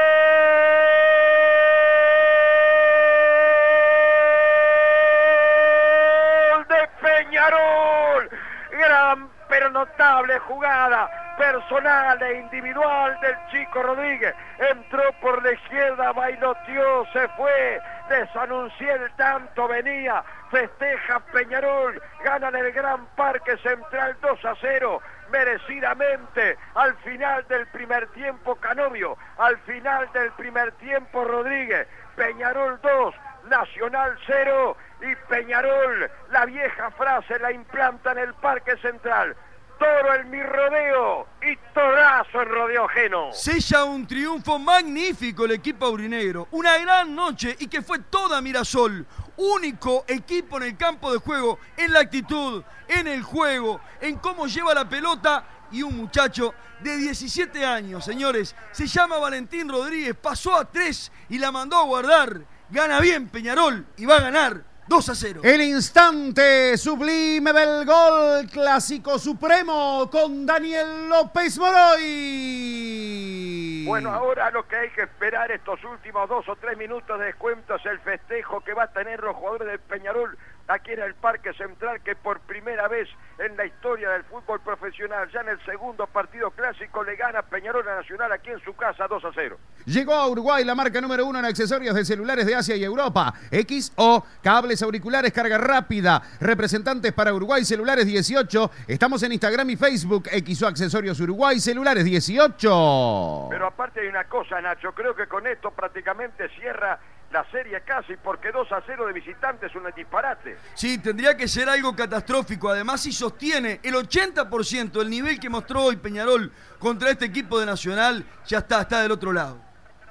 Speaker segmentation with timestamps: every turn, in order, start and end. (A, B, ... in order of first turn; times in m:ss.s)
0:00.3-0:00.9 A
0:04.4-0:43.4 A
0:43.3-1:05.4 B
1:05.4-1:14.2 C
1:13.8-1:29.6 A
1:29.9-1:43.6 C
1:43.5-1:50.6 A
1:50.8-1:59.6 B